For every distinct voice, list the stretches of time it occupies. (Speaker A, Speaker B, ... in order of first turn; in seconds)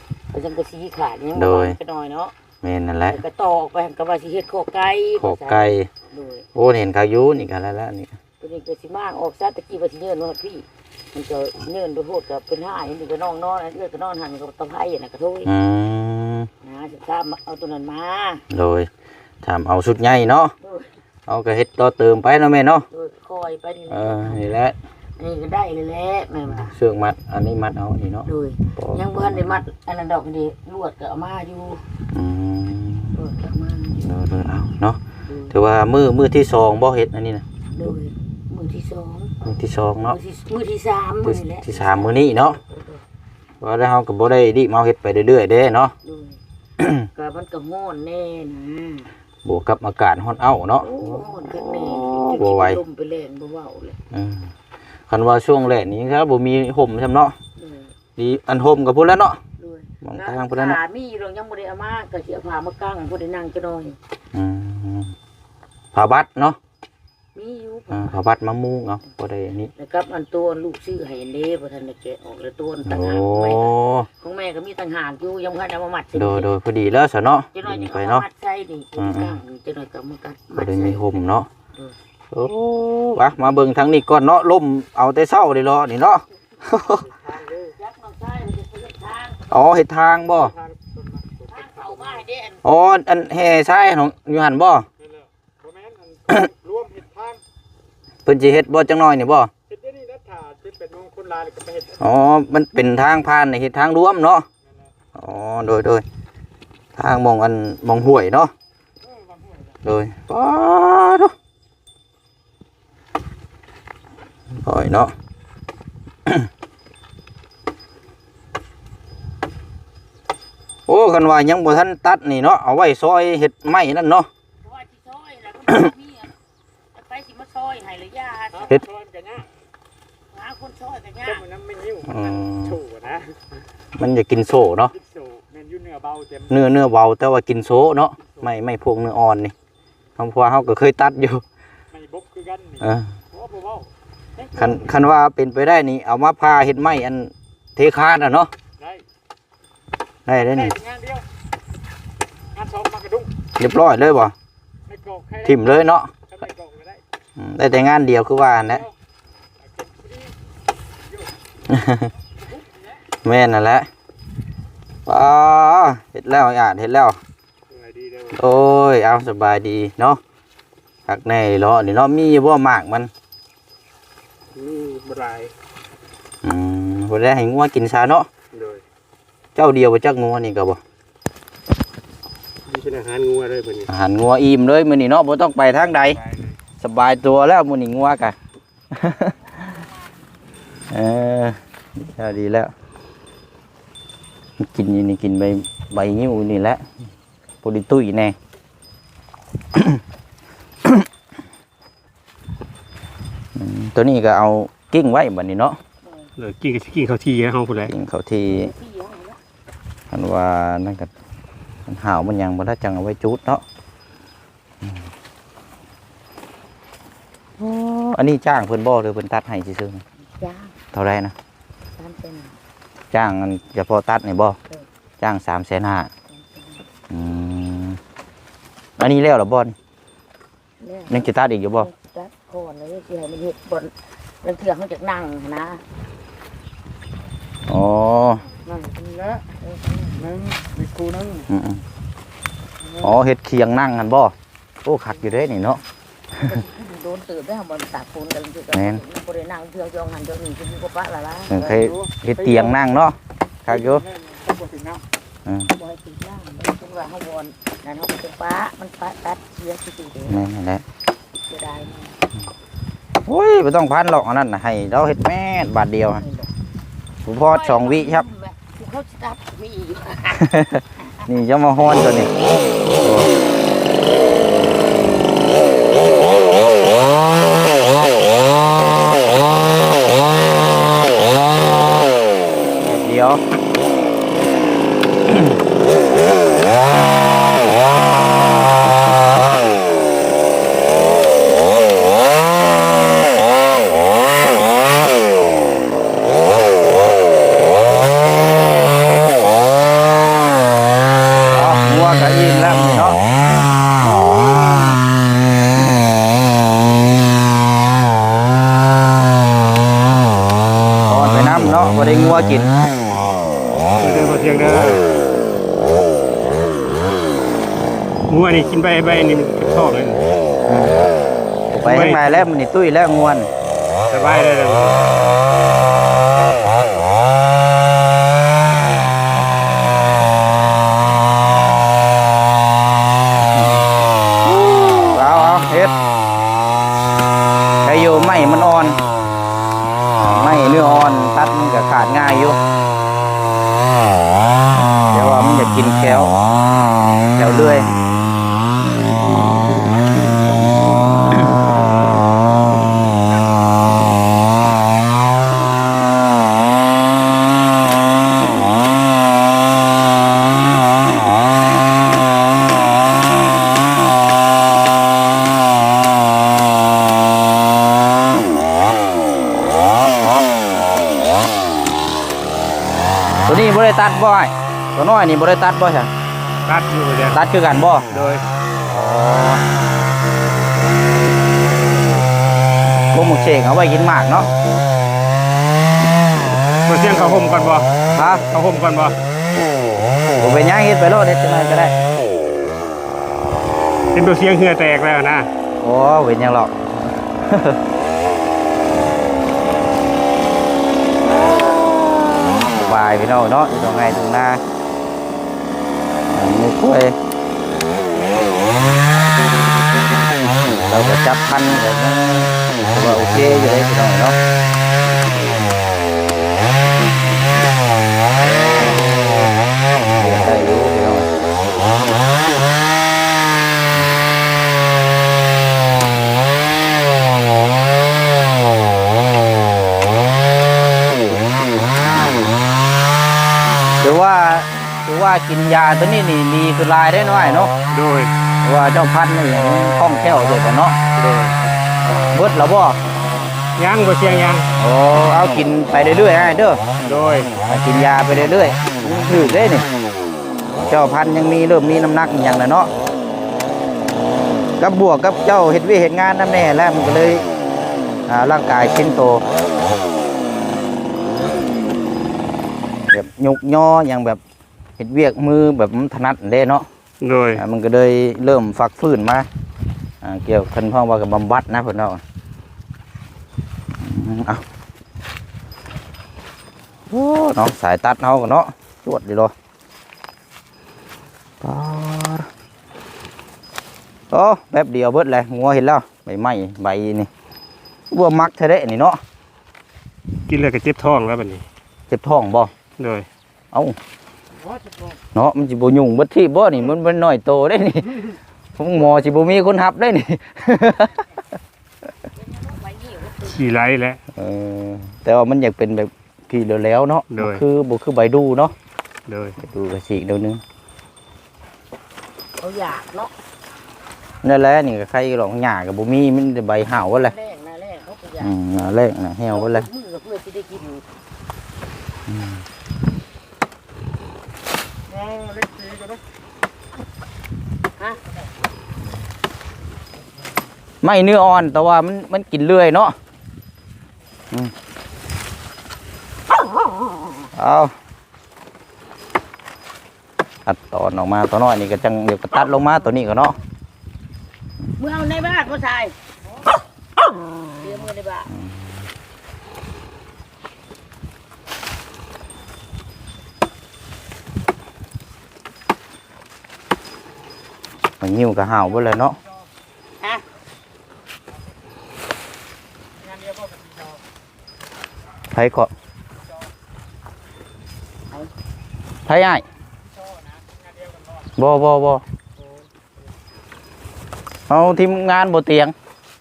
Speaker A: 0.3-2.3, 3.1-6.5, 8.4-15.5, 16.6-18.4, 20.6-20.9, 22.9-24.4, 25.2-26.8, 28.2-31.8, 33.1-34.0, 35.3-35.5, 37.7-39.3, 40.0-43.0, 46.0-46.4, 47.0-49.1, 50.8-54.0, 57.6-57.9, 59.6-64.0, 67.3-68.2, 69.8-76.5, 77.5-81.0, 87.7-89.5, 91.5-92.6, 124.6-126.3, 126.9-128.8, 130.3-131.5, 206.0-206.3, 208.5-209.4, 220.2-220.8, 222.0-222.6, 226.3-226.8, 230.8-235.8, 238.7-240.6, 246.4-251.9, 255.7-260.4, 261.5-262.2, 266.2-266.5, 267.3-270.6, 502.3-503.6, 512.6-513.3, 517.1-518.9, 519.5-521.0, 545.0-546.1, 547.7-548.5
Speaker B: 1.4-1.8, 2.6-3.2, 5.2-5.9, 6.5-8.1, 15.5-16.5, 18.5-18.9, 19.4-20.5, 21.3-22.9, 23.9-24.8, 26.5-29.6, 32.1-33.2, 34.0-35.0, 35.5-37.5, 39.4-40.2, 41.2-42.6, 43.6-46.0, 46.8-47.1, 49.4-52.8, 54.1-54.5, 55.1-57.4, 58.2-59.4, 60.0-60.8, 64.3-65.2, 65.9-66.6, 67.9-69.7, 72.9-74.1, 76.2-78.2, 79.0-79.4, 80.6-81.5, 82.3-87.1, 89.5-90.5, 92.6-94.9, 98.3-99.5, 102.0-104.5, 105.1-106.0, 107.0-108.5, 109.8-111.3, 114.5-115.1, 120.9-124.3, 132.0-132.8, 134.0-134.9, 136.5-139.5, 140.2-141.4, 142.8-143.1, 144.5-148.5, 150.3-150.8, 153.6-154.3, 155.4-156.1, 157.4-158.9, 161.7-162.1, 163.2-163.9, 165.1-167.2, 168.3-170.2, 171.1-173.1, 176.4-178.3, 179.6-180.8, 183.9-186.2, 186.8-188.4, 188.9-189.7, 190.9-192.7, 194.6-196.9, 197.6-198.4, 199.7-200.0, 203.6-205.8, 207.9-208.7, 210.1-211.1, 211.9-213.6, 217.6-220.0, 220.9-221.3, 223.1-224.6, 225.2-226.1, 227.1-228.0, 229.0-229.8, 231.1-231.9, 237.7-238.5, 241.5-241.8, 243.0-245.8, 248.7-249.0, 251.5-254.1, 260.3-260.8, 263.3-266.2, 267.2-268.3, 270.4-272.3, 273.0-273.3, 282.8-283.4, 301.5-303.2, 304.2-305.0, 311.1-312.7, 320.7-321.0, 321.7-323.5, 333.4-333.9, 334.4-335.9, 337.8-339.0, 340.2-342.6, 345.1-346.4, 347.4-347.9, 373.5-376.1, 377.3-378.1, 378.9-379.6, 383.1-384.5, 388.1-388.5, 390.4-392.0, 395.8-397.8, 401.2-404.6, 406.3-407.2, 410.5-414.4, 418.4-419.4, 420.0-422.2, 431.9-432.5, 434.0-437.7, 438.6-441.0, 442.3-443.0, 444.8-446.8, 447.6-449.9, 450.7-452.9, 454.8-457.4, 458.3-459.4, 463.1-464.4, 465.0-466.9, 467.6-469.5, 470.2-472.2, 474.0-474.6, 477.1-479.5, 481.6-482.5, 484.3-487.3, 488.1-489.2, 492.1-492.7, 493.7-494.0, 495.4-498.2, 498.8-501.3, 504.3-508.8, 509.6-510.6, 514.4-517.3, 518.4-519.9, 522.3-522.6, 531.0-533.2, 537.5-538.0, 540.7-543.6, 548.5-549.0, 558.2-559.4, 565.5-565.9, 569.3-569.7, 571.6-572.2, 574.7-576.0
Speaker C: 87.0-87.7, 90.5-92.2, 95.0-97.4, 99.7-102.0, 109.1-109.8, 128.6-129.5, 131.3-133.4, 135.0-136.6, 141.9-144.6, 150.5-151.2, 152.6-153.3, 154.9-155.7, 156.3-157.0, 159.6-160.3, 162.6-162.9, 167.7-168.4, 174.6-175.5, 178.5-178.8, 182.7-183.9, 186.2-186.5, 206.4-207.9, 240.3-241.5, 251.7-252.7, 253.7-255.0, 314.0-315.0, 318.3-320.2, 321.7-322.5, 324.1-325.1, 376.7-377.4, 378.1-378.4, 386.9-387.9, 388.5-389.2, 394.1-395.5, 437.9-438.3, 441.2-441.6, 443.8-444.7, 447.0-447.6, 467.2-467.6, 490.5-491.6, 493.0-493.3, 503.4-504.2, 507.3-507.6, 509.3-509.6, 525.2-526.2, 563.6-563.9, 570.8-571.3